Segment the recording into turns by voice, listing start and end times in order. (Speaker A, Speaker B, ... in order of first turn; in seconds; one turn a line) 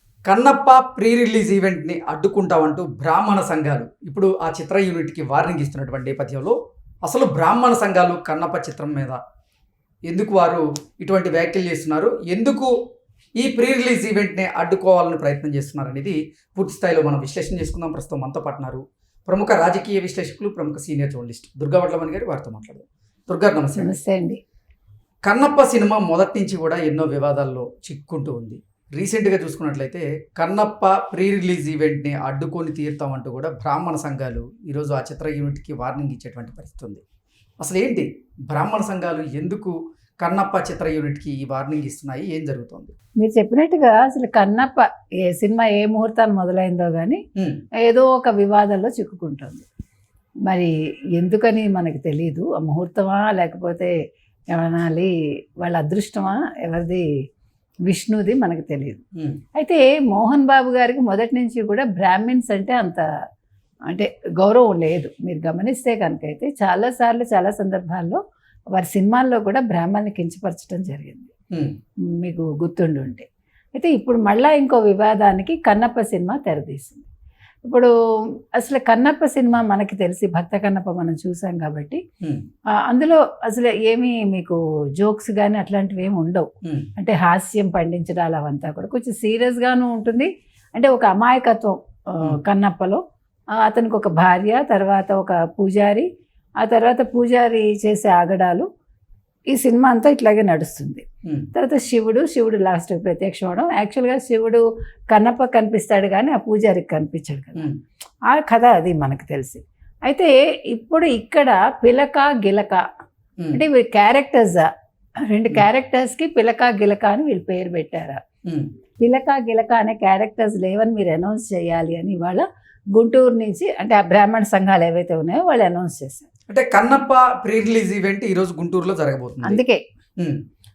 Speaker A: 0.3-9.2
Speaker A: 10.1-12.7
Speaker A: 13.4-23.9
Speaker B: 23.8-24.4
Speaker A: 25.2-37.0
Speaker A: 37.6-42.9
Speaker B: 43.2-47.2
Speaker A: 47.4-47.6
Speaker B: 47.8-49.6
Speaker B: 50.5-53.9
Speaker B: 54.5-57.1
Speaker B: 57.9-59.0
Speaker B: 59.5-63.0
Speaker B: 63.9-68.2
Speaker B: 68.7-71.3
Speaker B: 72.2-77.1
Speaker B: 77.6-77.9
Speaker B: 78.6-82.0
Speaker B: 82.9-93.0
Speaker B: 93.6-96.1
Speaker B: 96.6-98.7
Speaker B: 99.5-107.7
Speaker B: 108.3-112.8
Speaker B: 113.5-114.7
Speaker B: 115.3-118.2
Speaker B: 119.0-126.3
Speaker A: 126.5-129.6
Speaker B: 129.4-129.8